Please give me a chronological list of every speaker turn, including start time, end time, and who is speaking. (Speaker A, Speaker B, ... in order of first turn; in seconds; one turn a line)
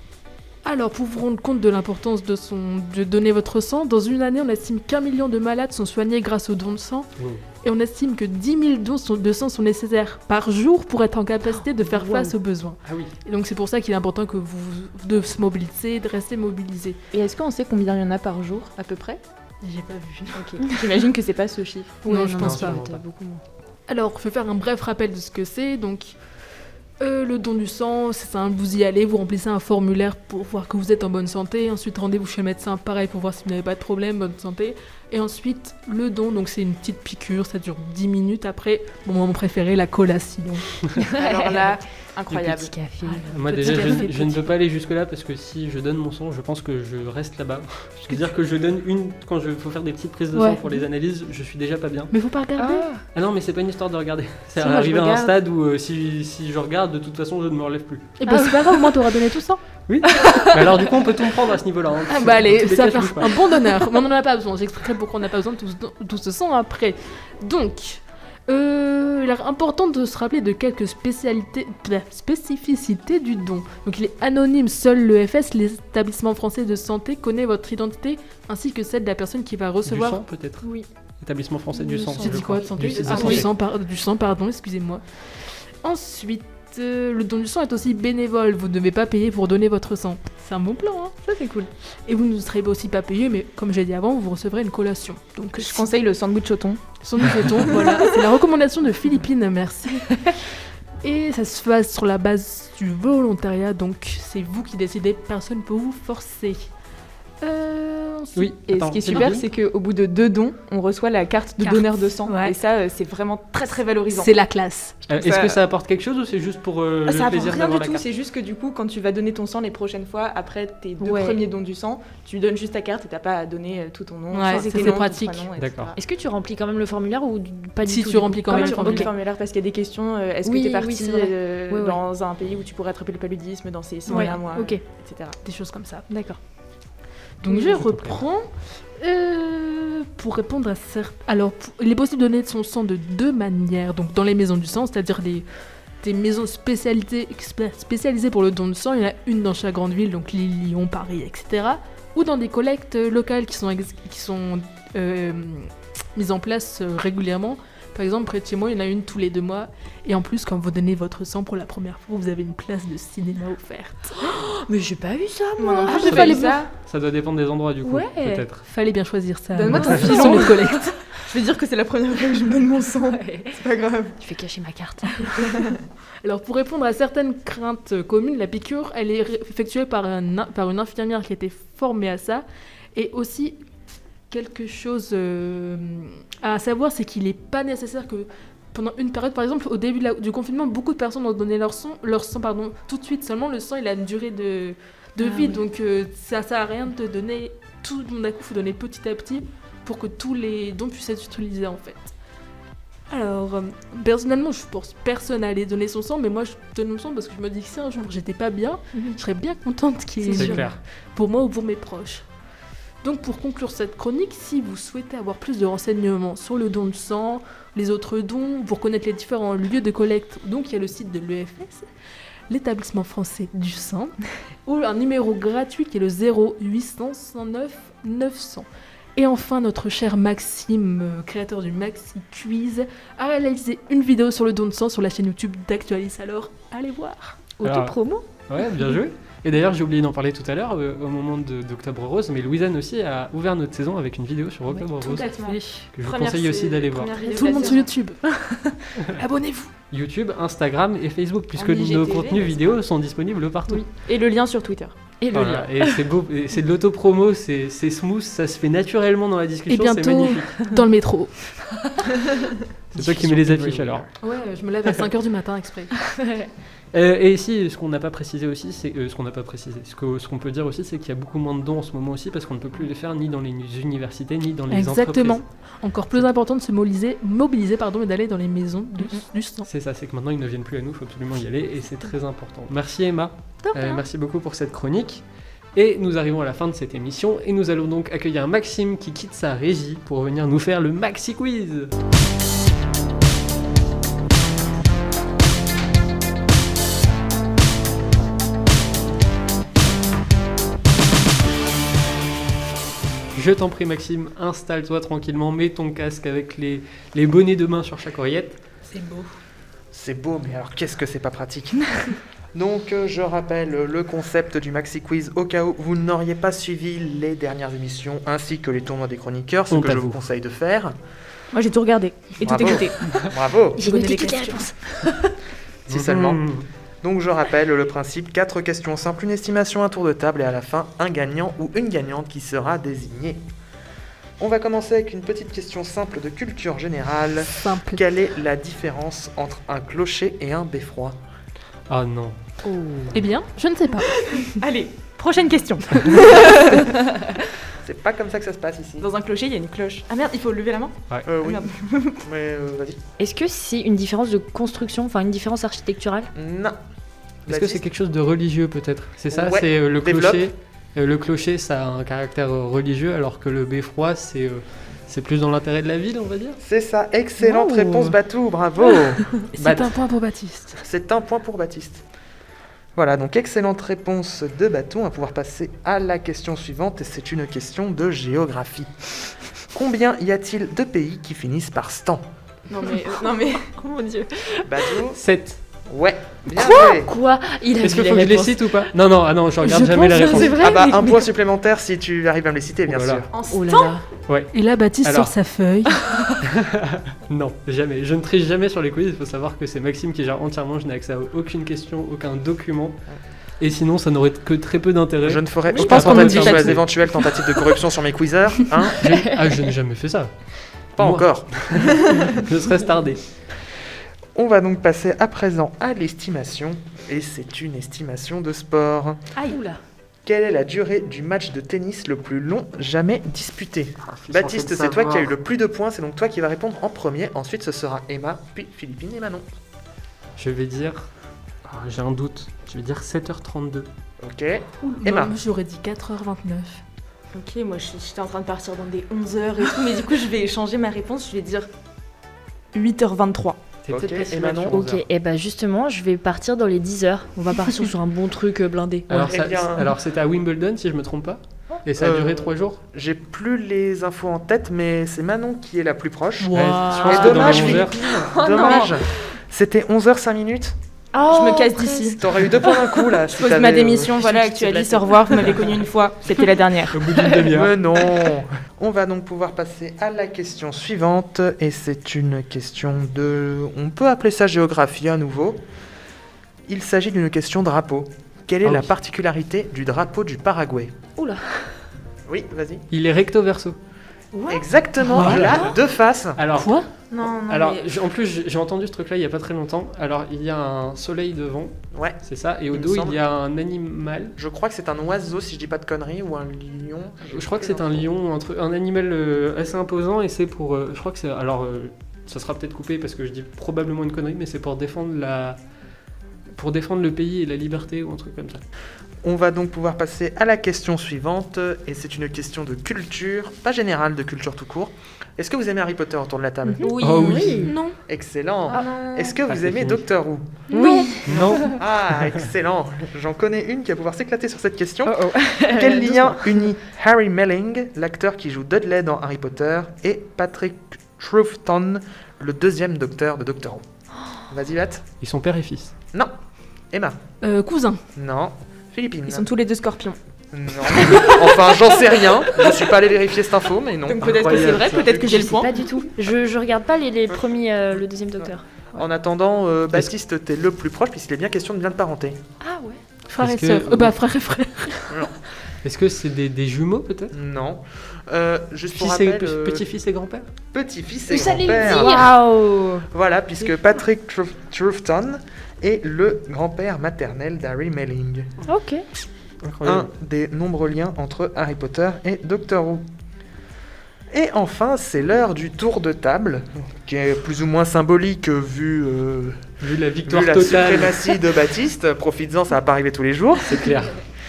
Speaker A: 0.6-7.1
Speaker A: 7.6-17.0
Speaker B: 11.8-12.3
Speaker C: 12.8-13.2
Speaker D: 17.1-19.2
Speaker A: 19.6-20.4
Speaker B: 20.4-20.7
Speaker D: 20.6-22.0
Speaker B: 22.1-23.4
Speaker A: 22.1-22.8
Speaker C: 22.4-23.0
Speaker A: 23.9-26.1
Speaker A: 27.0-40.8
Speaker B: 41.0-41.8
Speaker D: 41.2-42.7
Speaker B: 42.3-44.3
Speaker A: 43.1-44.3
Speaker C: 43.3-52.1
Speaker A: 50.3-50.8
Speaker A: 52.1-52.9
Speaker B: 52.6-53.0
Speaker C: 53.1-58.1
Speaker B: 54.6-55.3
Speaker A: 58.2-59.6
Speaker B: 58.3-59.0
Speaker C: 59.9-63.5
Speaker B: 60.2-60.5
Speaker A: 62.1-80.2
Speaker C: 79.8-80.7
Speaker B: 80.6-80.9
Speaker C: 81.2-83.5
Speaker B: 81.8-83.5
Speaker A: 82.2-85.3
Speaker D: 82.8-83.4
Speaker A: 85.8-91.2
Speaker B: 91.2-91.7
Speaker A: 92.1-95.9
Speaker D: 95.6-98.0
Speaker A: 97.0-100.5
Speaker A: 101.0-106.7
Speaker A: 107.4-108.5
Speaker C: 108.3-109.4
Speaker D: 108.7-114.3
Speaker A: 111.6-112.5
Speaker A: 114.1-115.0
Speaker C: 115.1-118.1
Speaker D: 115.2-115.6
Speaker D: 117.1-126.0
Speaker B: 121.0-121.4
Speaker A: 124.3-125.5
Speaker B: 124.5-125.0
Speaker C: 125.6-125.9
Speaker B: 126.0-129.1
Speaker A: 127.8-129.1
Speaker D: 128.5-135.4
Speaker B: 130.4-132.0
Speaker A: 134.1-134.7
Speaker B: 134.1-134.8
Speaker A: 135.4-136.1
Speaker B: 136.1-136.4
Speaker A: 137.4-145.4
Speaker C: 137.7-138.2
Speaker A: 146.0-164.3
Speaker B: 164.2-166.5
Speaker D: 165.6-166.7
Speaker A: 165.9-166.7
Speaker C: 166.1-168.6
Speaker B: 167.8-168.4
Speaker A: 168.7-170.9
Speaker D: 169.5-174.2
Speaker C: 169.8-170.1
Speaker B: 170.0-170.8
Speaker B: 173.1-173.6
Speaker B: 174.2-175.5
Speaker D: 175.4-175.8
Speaker A: 176.2-183.6
Speaker A: 184.3-202.1
Speaker B: 195.2-195.6
Speaker A: 203.1-212.2
Speaker B: 210.2-210.7
Speaker C: 210.3-210.8
Speaker A: 213.0-221.9
Speaker A: 222.5-237.4
Speaker B: 237.6-238.3
Speaker C: 237.6-237.9
Speaker C: 238.5-247.2
Speaker D: 245.0-247.9
Speaker B: 245.3-245.8
Speaker B: 247.3-247.8
Speaker A: 247.3-249.7
Speaker C: 249.9-253.9
Speaker D: 251.6-252.8
Speaker D: 254.0-254.9
Speaker B: 255.2-256.0
Speaker C: 255.3-260.6
Speaker A: 259.7-261.9
Speaker C: 262.9-264.1
Speaker E: 263.5-263.9
Speaker A: 264.2-266.2
Speaker C: 266.9-275.4
Speaker A: 274.7-279.7
Speaker C: 279.6-285.2
Speaker B: 283.6-284.0
Speaker C: 285.8-291.9
Speaker C: 303.3-308.6
Speaker A: 308.9-309.4
Speaker E: 309.9-312.0
Speaker E: 312.5-320.9
Speaker C: 319.7-320.2
Speaker D: 321.5-323.2
Speaker E: 322.4-323.8
Speaker B: 323.8-325.3
Speaker D: 323.8-324.7
Speaker E: 325.9-326.5
Speaker C: 325.9-326.7
Speaker E: 327.0-333.4
Speaker E: 334.4-341.1
Speaker A: 337.5-338.0
Speaker C: 341.9-342.4
Speaker B: 342.6-343.2
Speaker A: 343.1-344.5
Speaker D: 344.2-346.9
Speaker E: 347.8-349.1
Speaker D: 349.0-352.2
Speaker E: 351.3-351.7
Speaker E: 352.2-353.0
Speaker B: 353.2-356.3
Speaker E: 356.4-356.8
Speaker E: 357.5-357.8
Speaker C: 357.5-366.6
Speaker E: 359.3-360.5
Speaker E: 366.6-369.9
Speaker A: 367.4-367.9
Speaker B: 367.4-368.1
Speaker A: 369.5-370.8
Speaker E: 370.8-372.0
Speaker E: 372.9-379.1
Speaker E: 379.7-382.2
Speaker D: 382.7-383.8
Speaker B: 383.8-384.7
Speaker E: 384.6-385.2
Speaker C: 385.1-385.6
Speaker E: 385.9-387.1
Speaker B: 386.5-388.9
Speaker C: 387.8-390.6
Speaker B: 389.6-391.3
Speaker A: 390.1-390.5
Speaker E: 390.5-393.3
Speaker C: 392.9-393.2
Speaker D: 393.3-394.0
Speaker B: 393.5-394.0
Speaker C: 394.3-395.4
Speaker A: 394.5-395.9
Speaker C: 396.4-403.0
Speaker C: 403.6-406.9
Speaker E: 405.2-409.1
Speaker B: 405.9-406.6
Speaker C: 409.0-413.2
Speaker B: 409.1-409.6
Speaker E: 411.0-412.1
Speaker E: 414.4-419.2
Speaker B: 419.4-419.8
Speaker E: 420.2-429.4
Speaker C: 424.0-425.3
Speaker C: 430.4-431.1
Speaker C: 431.7-433.9
Speaker E: 434.2-435.4
Speaker A: 434.8-436.8
Speaker D: 437.3-441.7
Speaker D: 442.7-443.6
Speaker C: 443.9-445.1
Speaker E: 443.9-444.8
Speaker B: 444.7-449.3
Speaker C: 449.1-452.8
Speaker E: 449.1-449.9
Speaker E: 452.0-460.8
Speaker A: 456.4-457.8
Speaker C: 456.5-458.0
Speaker B: 457.1-459.1
Speaker D: 458.6-458.9
Speaker B: 461.1-463.2
Speaker D: 461.3-462.3
Speaker E: 462.2-464.2
Speaker D: 463.3-467.0
Speaker B: 464.2-465.7
Speaker C: 466.9-467.8
Speaker E: 467.4-475.6
Speaker E: 476.7-480.9
Speaker C: 478.6-478.9
Speaker B: 481.2-481.7
Speaker E: 482.3-482.8
Speaker C: 482.9-483.8
Speaker B: 484.3-484.6
Speaker E: 484.5-486.4
Speaker A: 485.1-485.6
Speaker C: 485.1-485.8
Speaker C: 486.4-494.4
Speaker A: 486.5-486.9
Speaker D: 487.1-487.9
Speaker E: 492.7-493.2
Speaker E: 494.4-498.1
Speaker C: 497.3-505.6
Speaker C: 506.6-508.6
Speaker E: 509.2-516.9
Speaker B: 516.6-517.8
Speaker D: 516.8-517.7
Speaker C: 517.0-517.7
Speaker A: 517.6-518.0
Speaker E: 518.1-520.6
Speaker D: 518.7-519.4
Speaker C: 519.5-520.0
Speaker A: 520.7-521.4
Speaker B: 520.7-521.7
Speaker C: 521.2-522.4
Speaker E: 521.3-533.8
Speaker B: 525.0-526.6
Speaker E: 534.5-535.0
Speaker C: 535.2-535.9
Speaker E: 536.9-537.2
Speaker A: 537.4-538.0
Speaker E: 538.1-539.5
Speaker D: 539.3-540.2
Speaker E: 540.5-545.4
Speaker D: 540.9-541.7
Speaker D: 544.0-545.7
Speaker C: 544.2-545.5
Speaker B: 545.1-548.6
Speaker E: 548.4-552.4
Speaker B: 552.6-553.0
Speaker A: 553.3-555.3
Speaker C: 553.4-554.1
Speaker C: 555.8-557.3
Speaker E: 557.3-559.9
Speaker C: 558.9-560.5
Speaker E: 560.7-562.3
Speaker B: 561.3-563.1
Speaker A: 561.6-562.2
Speaker E: 563.1-568.5
Speaker B: 568.7-569.0
Speaker C: 569.6-570.1
Speaker E: 569.8-573.0
Speaker E: 574.3-579.6
Speaker C: 579.8-581.4
Speaker E: 580.2-583.9
Speaker C: 583.6-584.2